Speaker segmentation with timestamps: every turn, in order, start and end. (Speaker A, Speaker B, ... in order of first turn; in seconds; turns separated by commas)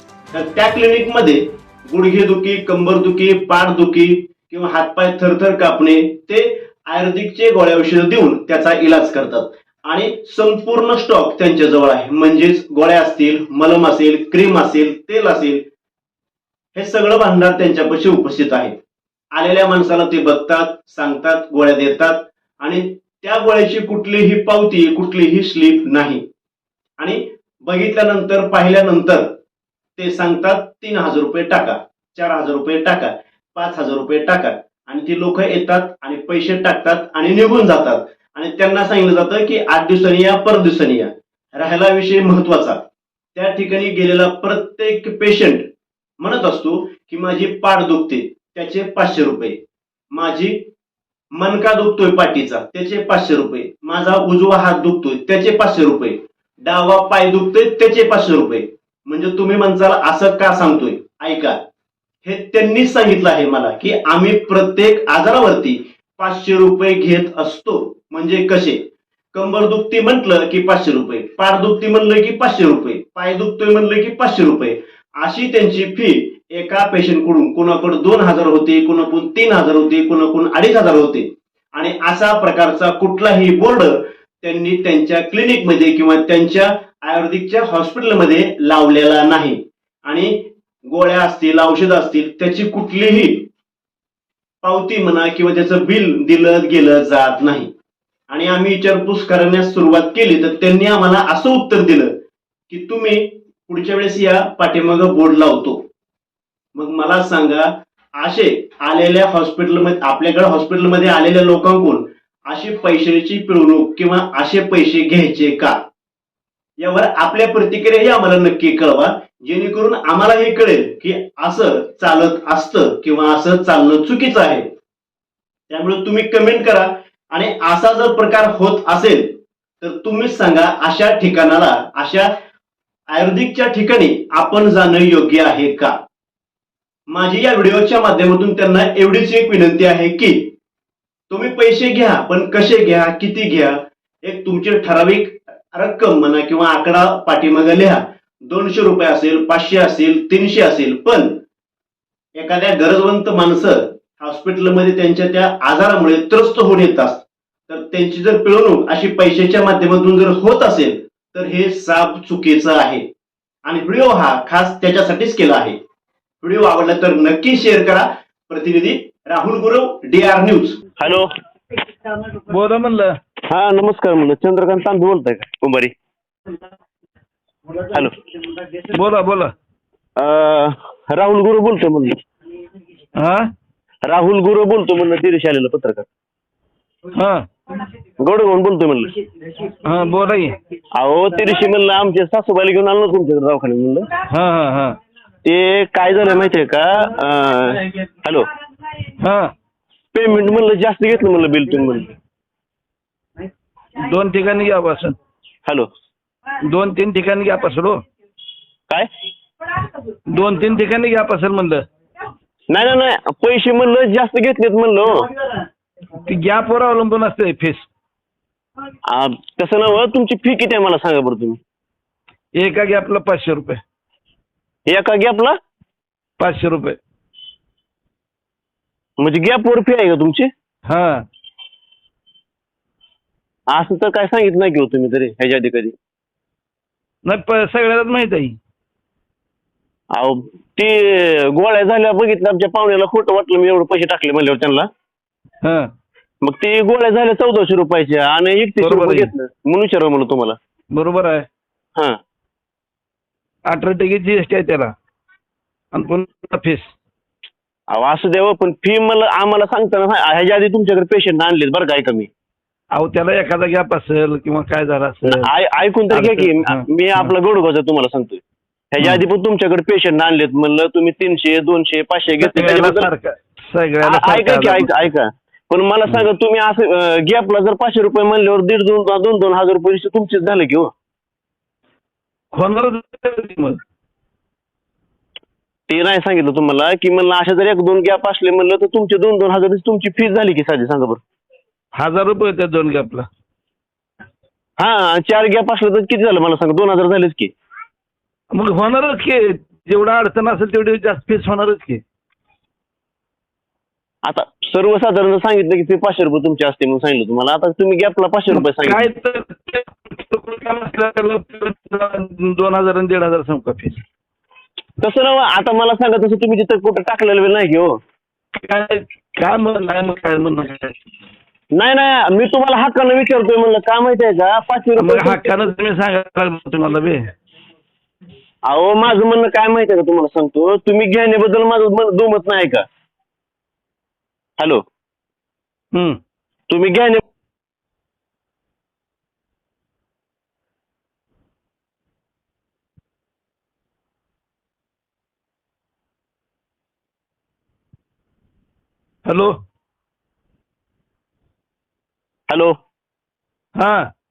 Speaker A: 0.3-15.6, Speaker A: 16.7-18.7, Speaker A: 19.3-26.2, Speaker A: 27.0-29.3, Speaker A: 29.9-42.8, Speaker A: 43.3-45.6, Speaker A: 46.2-49.6, Speaker A: 50.1-50.6, Speaker A: 51.3-61.6, Speaker A: 62.2-68.8, Speaker A: 69.3-93.5, Speaker A: 94.6-97.7, Speaker A: 98.3-102.1, Speaker A: 102.7-105.8, Speaker A: 106.7-115.8, Speaker A: 116.8-124.6, Speaker A: 125.7-132.3, Speaker A: 133.1-135.9, Speaker A: 137.1-140.5, Speaker A: 141.3-151.4, Speaker A: 152.4-163.0, Speaker A: 163.7-165.8, Speaker A: 166.4-170.8, Speaker B: 171.0-171.3, Speaker C: 172.3-173.2, Speaker B: 173.5-175.9, Speaker C: 178.9-179.5, Speaker B: 180.2-182.1, Speaker C: 183.2-183.5, Speaker B: 184.1-186.1, Speaker C: 187.1-187.5, Speaker B: 188.2-189.1, Speaker C: 189.7-190.6, Speaker B: 191.0-194.0, Speaker C: 194.2-195.0, Speaker B: 195.4-198.4, Speaker C: 199.2-199.5, Speaker B: 200.1-202.1, Speaker C: 203.9-205.2, Speaker C: 206.6-208.0, Speaker C: 210.3-211.8, Speaker B: 212.7-215.3, Speaker C: 216.2-217.9, Speaker B: 219.1-221.6, Speaker C: 222.6-223.8, Speaker B: 224.9-225.6, Speaker C: 226.4-227.0, Speaker B: 229.2-230.5, Speaker C: 230.9-231.2, Speaker B: 233.7-235.9, Speaker C: 237.2-238.6, Speaker B: 240.1-244.9, Speaker C: 245.6-245.9, Speaker B: 246.4-250.6, Speaker C: 248.8-249.3, Speaker C: 250.9-251.5, Speaker C: 253.7-254.9, Speaker C: 255.9-256.9, Speaker B: 257.9-262.3, Speaker C: 262.9-265.5, Speaker B: 265.3-268.4, Speaker C: 266.1-267.3, Speaker B: 268.9-273.1, Speaker C: 272.4-275.1, Speaker B: 274.2-280.9, Speaker C: 282.5-283.8, Speaker B: 285.9-291.2, Speaker C: 291.9-293.3, Speaker B: 294.8-297.5, Speaker C: 298.5-302.0, Speaker B: 304.2-309.0, Speaker C: 308.5-314.0, Speaker B: 315.0-318.0, Speaker C: 318.5-321.0, Speaker B: 321.8-325.5, Speaker C: 325.0-327.3, Speaker B: 328.7-332.8, Speaker C: 335.9-336.2, Speaker B: 336.7-337.2, Speaker C: 349.2-349.5, Speaker C: 353.8-354.1